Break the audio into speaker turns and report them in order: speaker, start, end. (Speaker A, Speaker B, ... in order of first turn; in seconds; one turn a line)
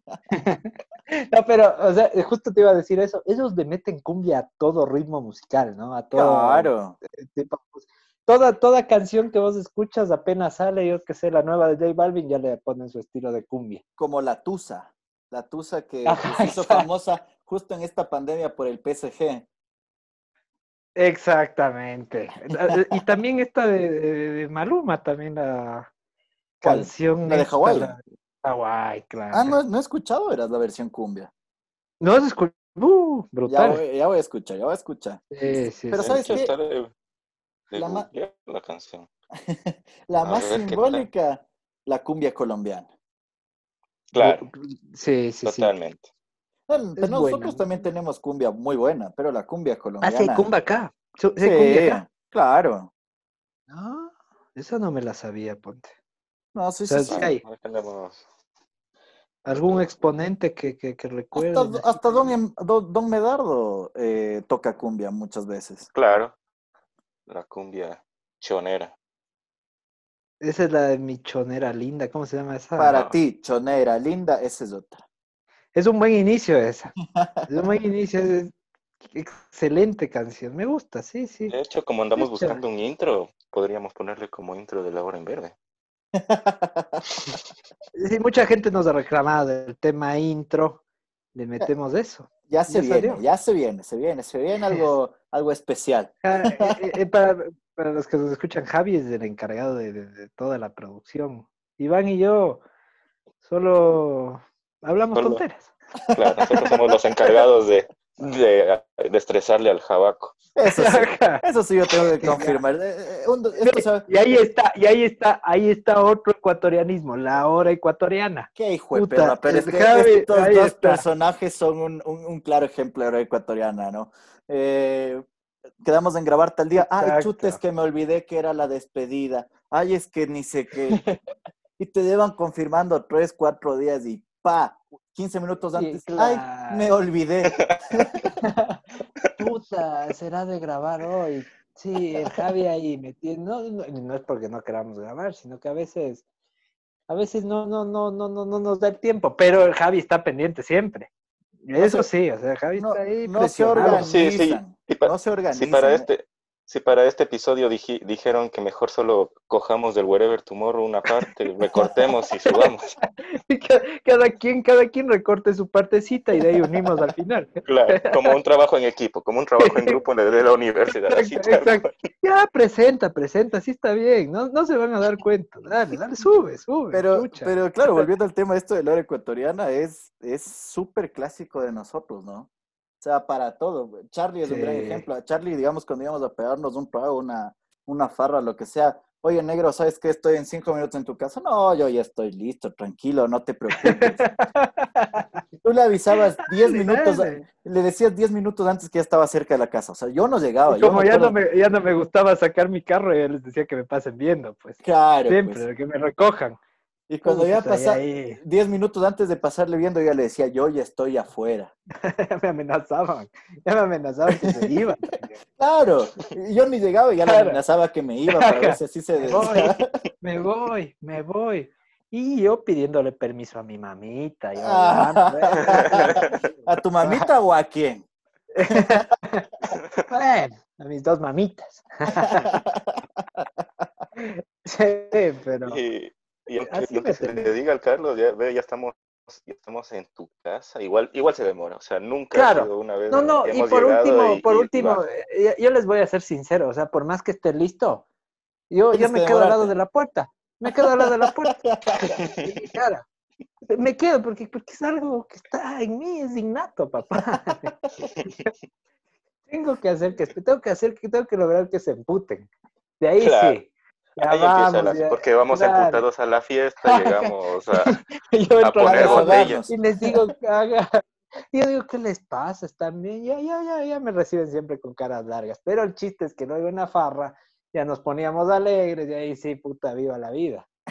Speaker A: 0.3-13.8
Speaker B: 6.1-7.0
Speaker B: 14.0-19.5
Speaker A: 16.1-16.9
Speaker A: 21.0-25.9
Speaker B: 22.7-23.0
Speaker A: 26.6-29.6
Speaker B: 26.6-27.9
Speaker B: 29.3-31.3
Speaker A: 32.0-33.8
Speaker B: 33.5-35.2
Speaker A: 35.3-36.4
Speaker B: 35.9-36.5
Speaker C: 36.0-36.9
Speaker C: 37.7-39.1
Speaker B: 37.8-38.1
Speaker B: 39.4-42.9
Speaker C: 40.2-41.1
Speaker C: 44.1-44.5
Speaker A: 44.1-45.7
Speaker C: 45.4-46.1
Speaker B: 46.7-50.5
Speaker A: 47.0-47.6
Speaker A: 50.0-52.0
Speaker B: 51.4-52.9
Speaker A: 53.7-55.9
Speaker B: 56.5-57.3
Speaker A: 56.9-57.4
Speaker C: 57.1-58.2
Speaker A: 59.5-62.3
Speaker C: 59.5-59.9
Speaker B: 61.4-65.9
Speaker C: 65.9-66.3
Speaker C: 67.3-68.9
Speaker A: 70.4-73.0
Speaker B: 72.8-75.0
Speaker A: 75.7-77.0
Speaker B: 77.2-77.5
Speaker A: 77.5-78.5
Speaker A: 79.1-81.5
Speaker C: 81.5-85.5
Speaker A: 82.2-82.6
Speaker B: 86.1-87.0
Speaker A: 88.0-90.8
Speaker A: 91.3-93.2
Speaker B: 92.5-96.8
Speaker A: 96.2-102.6
Speaker A: 103.4-105.7
Speaker C: 105.2-105.4
Speaker B: 106.0-107.4
Speaker C: 106.2-110.3
Speaker B: 110.6-114.1
Speaker A: 110.7-111.4
Speaker A: 112.2-112.6
Speaker A: 113.6-121.0
Speaker B: 118.6-125.2
Speaker B: 125.8-131.0
Speaker A: 126.8-127.6
Speaker B: 131.8-138.3
Speaker A: 135.8-136.9
Speaker C: 137.5-138.0
Speaker A: 138.4-138.8
Speaker A: 139.4-146.2
Speaker A: 147.1-151.1
Speaker A: 151.7-154.1
Speaker B: 151.8-152.1
Speaker B: 152.8-156.1
Speaker C: 153.8-162.9
Speaker A: 163.3-168.3
Speaker C: 167.7-171.9
Speaker A: 169.6-170.0
Speaker A: 170.9-177.6
Speaker B: 176.9-182.5
Speaker B: 183.0-194.3
Speaker A: 184.4-185.1
Speaker A: 193.8-195.3
Speaker B: 195.6-201.4
Speaker A: 196.5-197.5
Speaker A: 200.7-206.6
Speaker B: 204.8-205.6
Speaker B: 207.1-211.7
Speaker A: 207.2-208.4
Speaker A: 212.0-215.4
Speaker B: 214.4-214.7
Speaker B: 215.6-219.9
Speaker A: 217.2-217.6
Speaker A: 218.3-227.3
Speaker B: 224.6-228.1
Speaker A: 228.5-232.5
Speaker B: 228.7-229.0
Speaker B: 232.2-233.0
Speaker A: 234.2-235.8
Speaker C: 235.7-245.0
Speaker A: 236.6-237.5
Speaker A: 242.3-248.1
Speaker A: 248.7-253.1
Speaker B: 248.9-249.7
Speaker B: 250.8-252.2
Speaker A: 253.7-257.8
Speaker A: 259.5-262.5
Speaker A: 263.0-266.0
Speaker C: 263.2-263.6
Speaker C: 264.3-268.0
Speaker A: 266.9-280.7
Speaker C: 268.6-269.6
Speaker B: 268.8-270.2